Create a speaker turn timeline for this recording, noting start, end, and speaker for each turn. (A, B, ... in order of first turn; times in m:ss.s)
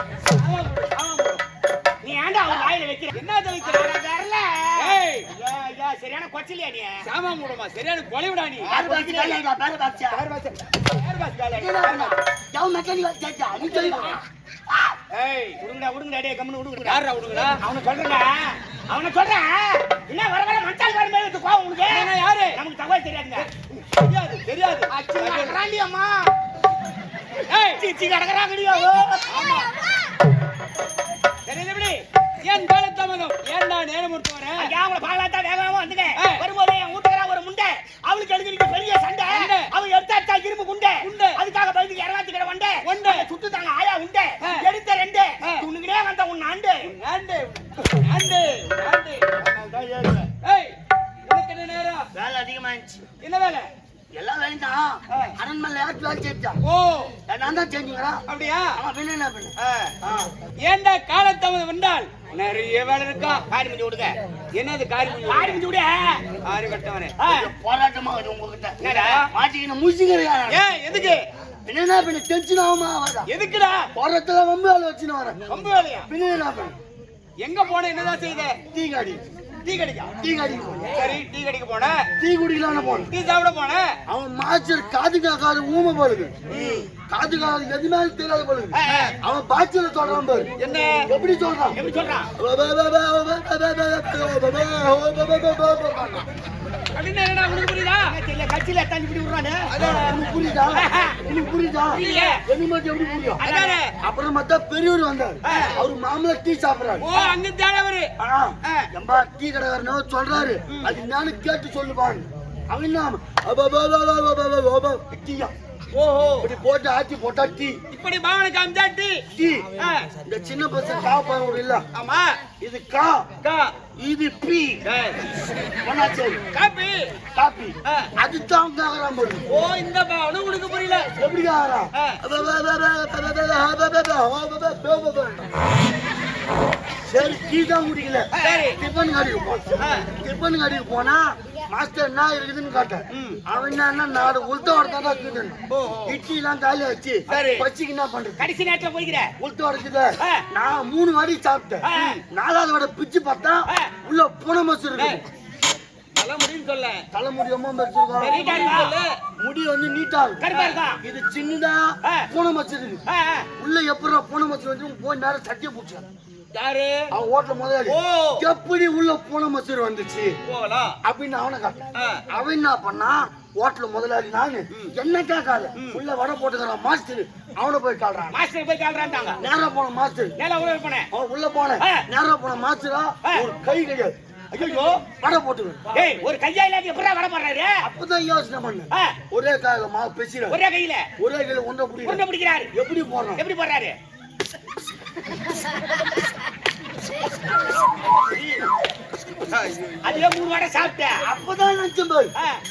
0:00.3-0:01.4 A
0:02.0-0:07.0 B
0:03.1-0:03.9 A
0:04.8-0:05.3 A
0:07.0-0:09.4 A
0:08.6-0:10.2 C
0:10.1-0:12.2 A
0:11.5-0:14.2 C
0:13.6-0:14.2 A
0:15.1-0:15.6 A
0:15.6-0:23.5 B
0:16.8-0:17.6 A
0:21.9-0:22.6 A
0:23.4-0:25.6 A
0:24.9-0:26.3 B
0:27.5-0:27.8 A
0:27.6-0:29.4 B
0:29.2-0:29.7 A
0:31.4-0:34.7 A
0:34.6-0:46.9 B
0:36.2-0:36.4 A
0:39.3-0:39.7 A
0:41.0-0:41.4 A
0:42.8-0:43.3 A
0:46.8-0:50.8 A
0:51.3-0:52.1 A
0:52.1-0:53.0 C
0:53.2-0:53.7 A
0:54.1-0:56.6 C
0:56.6-0:57.1 A
0:57.3-0:58.2 C
0:58.3-0:58.8 A
0:58.7-1:00.3 C
0:59.6-0:59.9 A
1:00.6-1:03.4 A
1:03.5-1:04.2 B
1:04.5-1:05.6 A
1:05.3-1:06.2 B
1:06.4-1:07.2 A
1:07.2-1:07.5 B
1:07.3-1:10.6 C
1:08.8-1:09.2 B
1:08.8-1:09.3 A
1:10.5-1:11.3 A
1:11.7-1:13.3 C
1:13.3-1:13.9 A
1:13.9-1:15.4 C
1:15.5-1:16.1 A
1:16.0-1:16.8 C
1:17.4-1:18.6 A
1:18.7-1:19.2 C
1:19.6-1:20.1 A
1:20.2-1:21.1 C
1:20.9-1:22.1 A
1:22.2-1:23.1 C
1:23.1-1:23.9 A
1:24.1-1:30.5 C
1:26.5-1:26.9 A
1:28.7-1:29.1 B
1:28.8-1:29.1 A
1:30.6-1:31.1 A
1:31.1-1:31.8 C
1:31.7-1:32.3 B
1:32.4-1:36.3 C
1:36.9-1:38.1 A
1:38.0-1:39.9 B
1:39.7-1:40.2 A
1:39.8-1:43.4 C
1:40.7-1:41.2 B
1:41.9-1:42.4 A
1:41.9-1:42.4 B
1:43.4-1:43.8 B
1:43.4-1:43.9 A
1:44.0-1:47.1 C
1:45.4-1:45.8 B
1:45.4-1:45.8 A
1:47.0-1:48.1 A
1:48.2-1:55.5 C
1:50.7-1:50.9 A
1:55.9-1:56.5 A
1:56.4-1:57.8 C
1:57.9-1:59.2 A
1:59.3-1:59.7 C
1:59.8-2:00.1 A
2:00.2-2:01.8 C
2:01.9-2:02.4 A
2:02.6-2:03.3 C
2:03.4-2:03.7 A
2:04.0-2:04.8 C
2:04.8-2:05.2 A
2:05.8-2:06.4 C
2:06.5-2:07.1 A
2:07.3-2:09.4 C
2:07.8-2:08.1 A
2:09.5-2:11.1 A
2:11.2-2:15.5 C
2:11.9-2:12.2 A
2:17.0-2:28.4 C
2:18.3-2:18.6 B
2:18.4-2:18.8 A
2:19.8-2:20.1 A
2:23.1-2:23.4 A
2:25.7-2:26.2 A
2:27.3-2:27.7 A
2:28.4-2:29.3 B
2:29.4-2:35.2 C
2:31.8-2:32.2 B
2:31.9-2:32.2 A
2:34.9-2:35.2 A
2:36.1-2:37.0 A
2:37.1-2:38.7 C
2:38.2-2:39.2 A
2:38.3-2:39.0 B
2:39.4-2:40.4 C
2:40.4-2:41.0 B
2:40.5-2:40.8 A
2:41.0-2:43.0 C
2:43.1-2:43.5 B
2:43.6-2:46.0 C
2:46.5-2:47.1 A
2:47.1-2:50.4 C
2:47.8-2:48.4 A
2:50.5-2:51.0 A
2:51.0-2:58.4 C
2:51.9-2:52.2 A
2:55.8-2:56.0 A
2:58.3-2:59.4 B
2:59.4-3:00.3 C
3:00.4-3:01.1 B
3:01.1-3:04.1 C
3:01.8-3:02.0 B
3:04.5-3:05.0 A
3:05.1-3:05.9 C
3:05.9-3:06.2 A
3:05.9-3:07.8 B
3:07.8-3:10.6 C
3:08.9-3:09.2 B
3:10.5-3:11.1 B
3:11.2-3:12.2 C
3:12.0-3:12.7 B
3:12.7-3:13.4 C
3:13.4-3:13.9 B
3:18.3-3:18.6 B
3:20.0-3:21.3 B
3:21.2-3:22.3 C